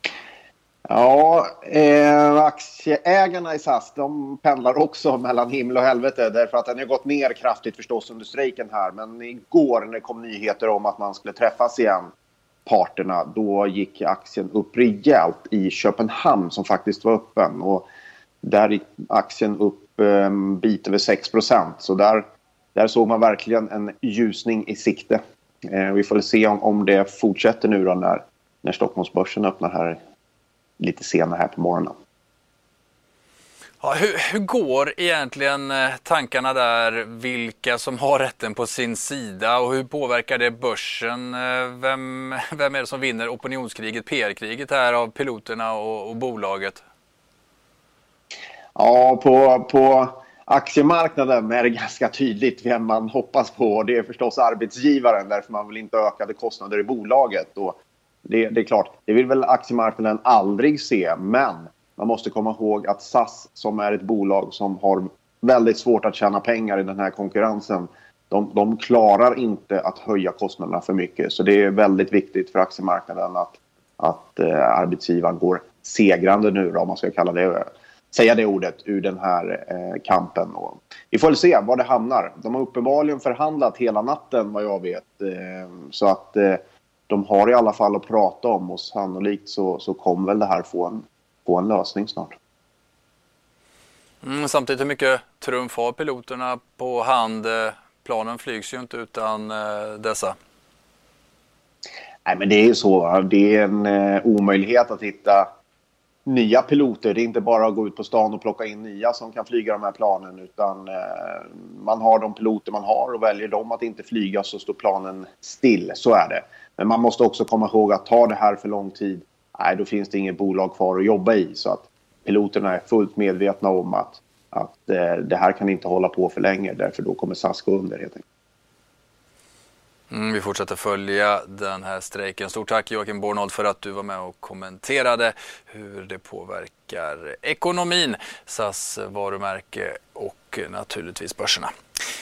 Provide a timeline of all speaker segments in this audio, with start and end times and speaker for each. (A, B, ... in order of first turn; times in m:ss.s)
0:00.9-0:12.1 A
0:12.7-0:17.9 A
0:18.4-0:30.0 A
0:30.8-0:32.0 A
0:33.8-0:46.8 B
0:48.8-1:32.3 A
1:34.2-1:40.4 B
1:42.3-1:45.5 A
1:46.3-2:08.2 A
2:10.1-2:21.7 B